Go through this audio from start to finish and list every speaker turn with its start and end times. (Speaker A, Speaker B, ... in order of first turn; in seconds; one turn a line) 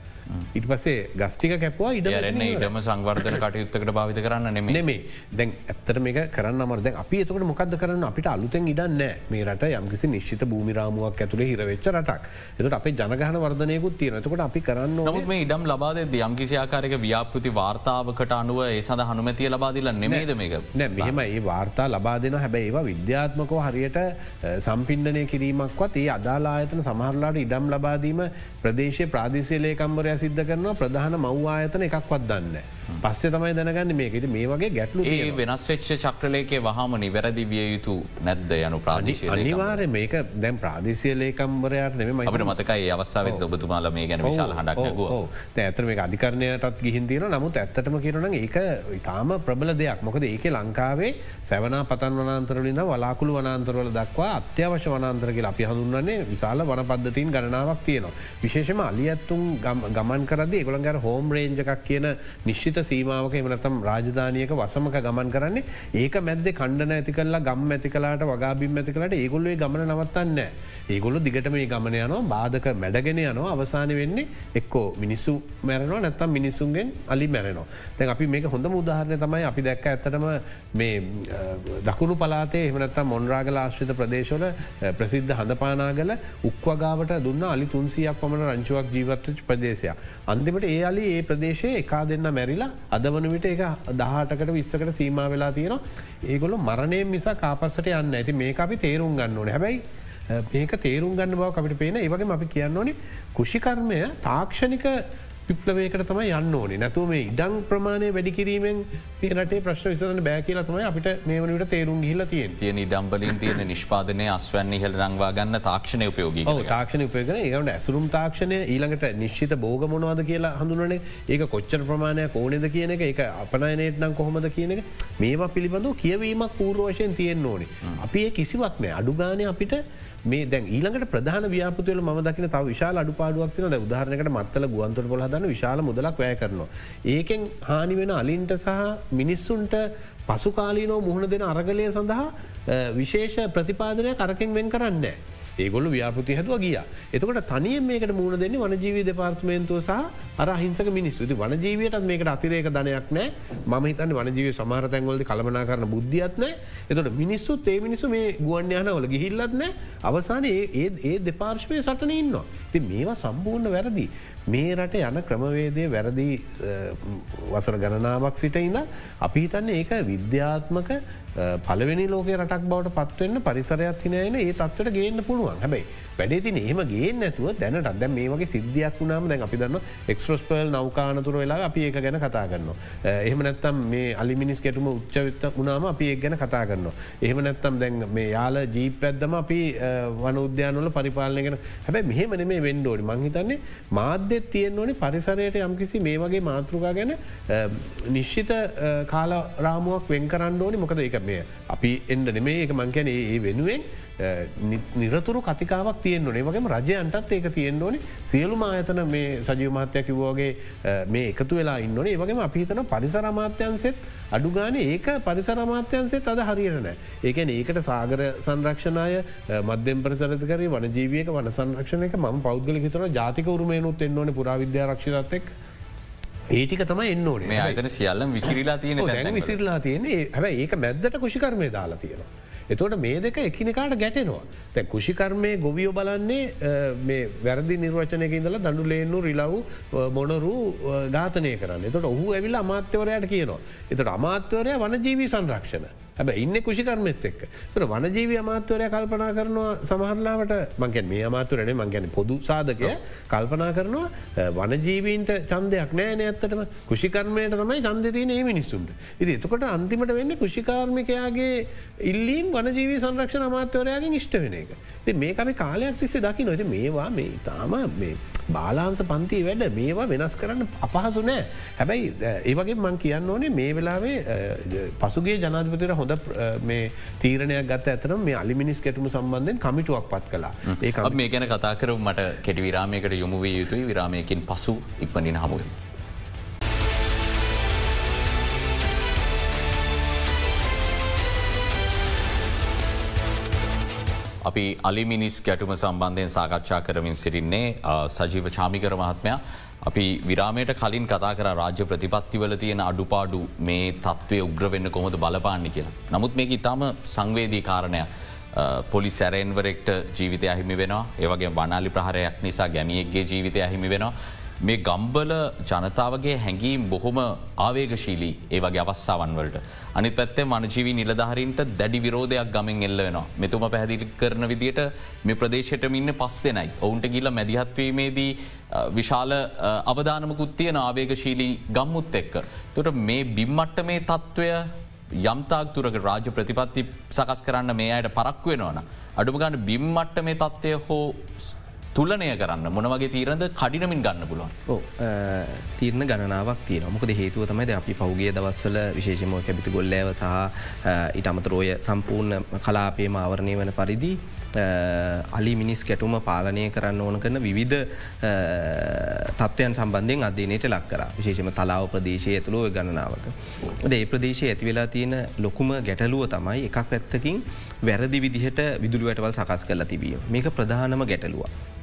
Speaker A: 0.5-2.7
Speaker B: 2.1-4.8
Speaker A: 4.7-15.3
Speaker B: 15.1-21.2
Speaker A: 20.1-35.4
Speaker B: 35.0-39.8
Speaker A: 38.9-42.6
Speaker B: 42.3-45.2
Speaker A: 44.2-112.6
Speaker B: 112.6-116.8
Speaker A: 116.5-225.5
Speaker A: 226.5-227.8
Speaker B: 227.4-229.6
Speaker A: 229.0-281.2
Speaker B: 280.8-285.7
Speaker B: 294.4-334.7
Speaker B: 335.2-344.5
Speaker C: 344.7-371.5